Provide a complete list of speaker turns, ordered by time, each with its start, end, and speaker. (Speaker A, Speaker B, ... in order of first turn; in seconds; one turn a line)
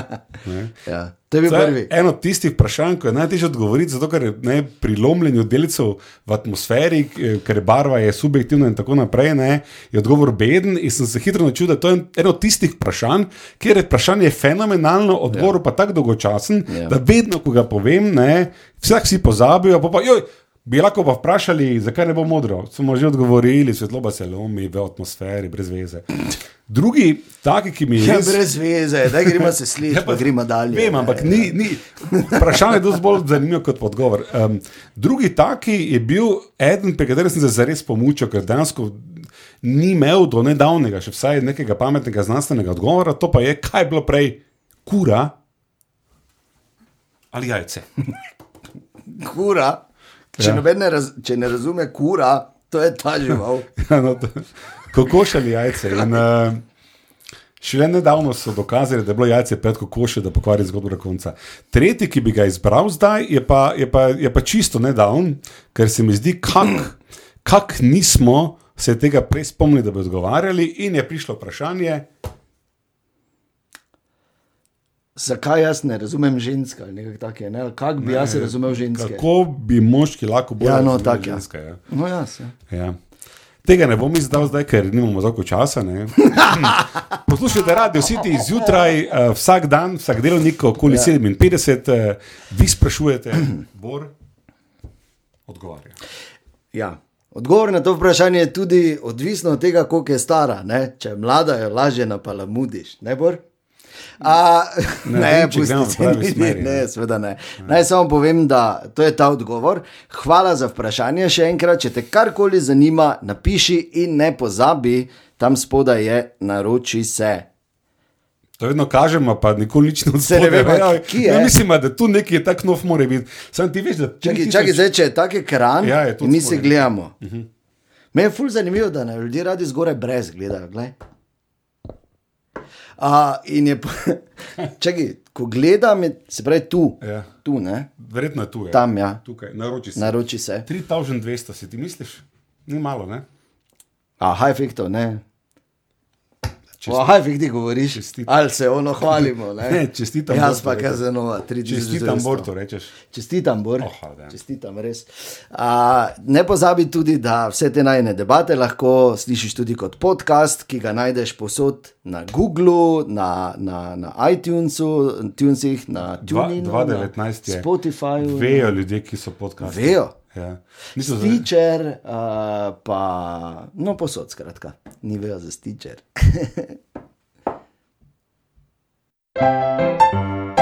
Speaker A: 0.4-0.7
Speaker B: 0.8-1.9
Speaker A: 1.4-28.4
Speaker B: 16.7-16.9
Speaker B: 28.0-32.4
Speaker A: 29.9-45.3
Speaker A: 47.3-47.9
Speaker B: 49.1-49.8
Speaker A: 50.4-50.6
Speaker B: 50.4-53.7
Speaker A: 53.8-56.6
Speaker A: 57.6-72.0
Speaker B: 75.2-79.2
Speaker A: 78.0-81.8
Speaker B: 80.6-82.5
Speaker A: 82.7-83.0
Speaker A: 83.6-94.1
Speaker A: 95.5-96.0
Speaker B: 96.7-103.4
Speaker B: 104.2-117.5
Speaker A: 105.0-106.8
Speaker A: 118.6-124.8
Speaker B: 120.2-121.5
Speaker B: 124.2-127.1
Speaker A: 125.8-127.5
Speaker B: 128.1-130.9
Speaker B: 133.0-137.9
Speaker A: 137.0-137.3
Speaker A: 138.0-140.1
Speaker B: 138.7-139.2
Speaker B: 139.9-140.7
Speaker A: 140.7-143.2
Speaker B: 144.2-145.2
Speaker A: 146.8-147.2
Speaker B: 146.8-152.5
Speaker A: 147.9-148.3
Speaker A: 149.1-151.0
Speaker A: 151.6-152.9
Speaker B: 153.1-168.8
Speaker A: 153.8-154.3
Speaker A: 166.2-167.7
Speaker A: 168.2-171.4
Speaker B: 169.6-170.1
Speaker B: 171.0-176.8